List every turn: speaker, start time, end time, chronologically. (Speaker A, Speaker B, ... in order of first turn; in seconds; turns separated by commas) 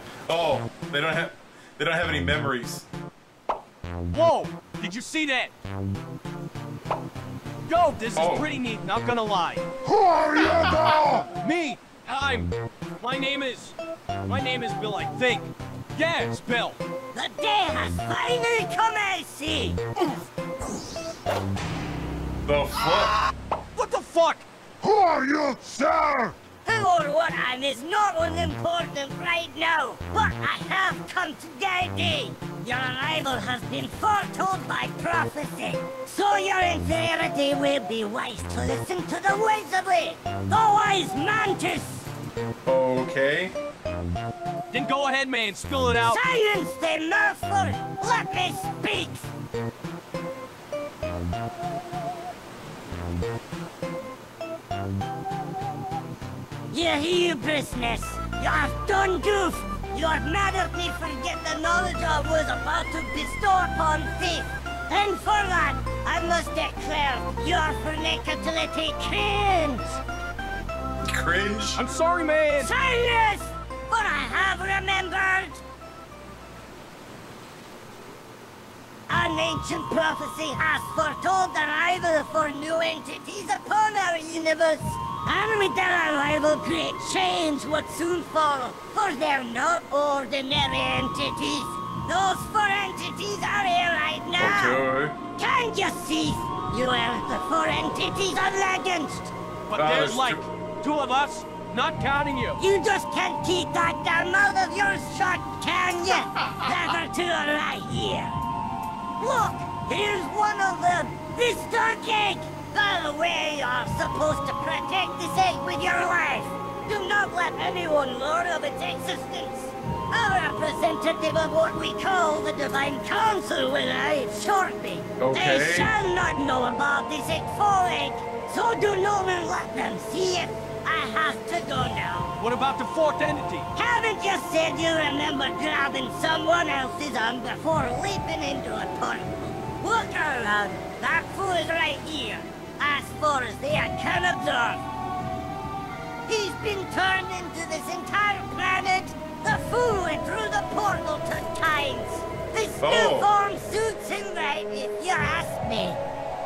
Speaker A: 0.3-2.9, Speaker B: 4.1-5.5, Speaker B: 7.7-9.6, Speaker A: 8.2-8.5, Speaker C: 9.8-11.3, Speaker B: 11.4-13.7, Speaker B: 14.2-16.8, Speaker D: 17.1-19.8, Speaker A: 22.4-23.1, Speaker B: 23.7-24.4, Speaker C: 24.8-26.4, Speaker D: 26.6-42.1, Speaker A: 42.6-43.5, Speaker B: 44.7-46.2, Speaker D: 46.0-49.3, Speaker D: 56.7-70.0, Speaker A: 71.0-71.8, Speaker B: 71.8-72.7, Speaker D: 72.6-75.6, Speaker D: 79.1-94.8, Speaker A: 94.4-95.2, Speaker D: 95.3-99.3, Speaker B: 99.7-102.6, Speaker A: 99.8-100.4, Speaker D: 102.6-108.3, Speaker D: 109.2-132.4, Speaker A: 125.2-125.9, Speaker B: 132.4-133.7, Speaker D: 133.7-144.8, Speaker D: 146.3-156.0, Speaker A: 152.8-153.3